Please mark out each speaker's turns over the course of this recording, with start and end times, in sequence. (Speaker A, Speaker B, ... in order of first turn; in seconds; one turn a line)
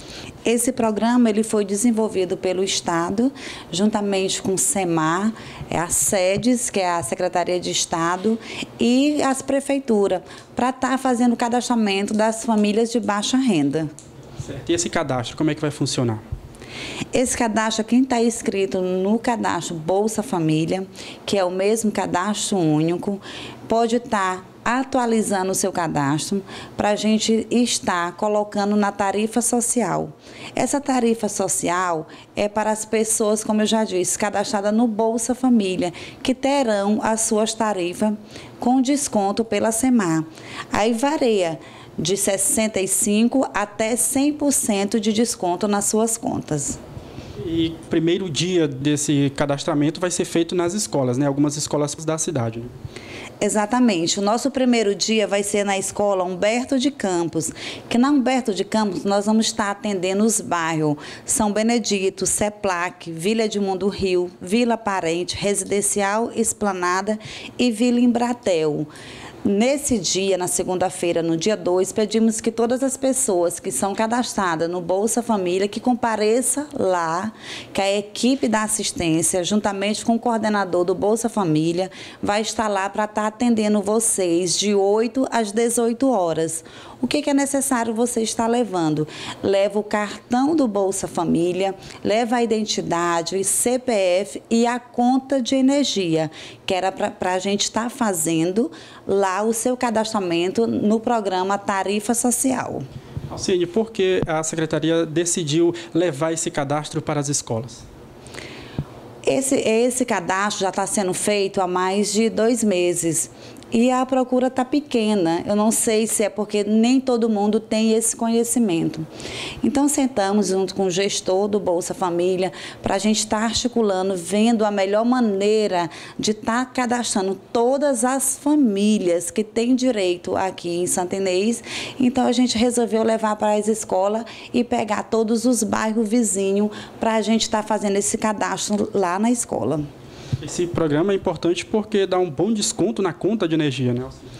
Speaker A: 0.4-13.9
Speaker B: 14.4-16.2
Speaker A: 17.1-46.8
Speaker B: 47.4-52.7
Speaker A: 53.4-68.9
Speaker A: 69.4-102.8
Speaker B: 103.3-107.8
Speaker A: 109.2-119.1
Speaker A: 119.6-139.8
Speaker B: 140.4-144.2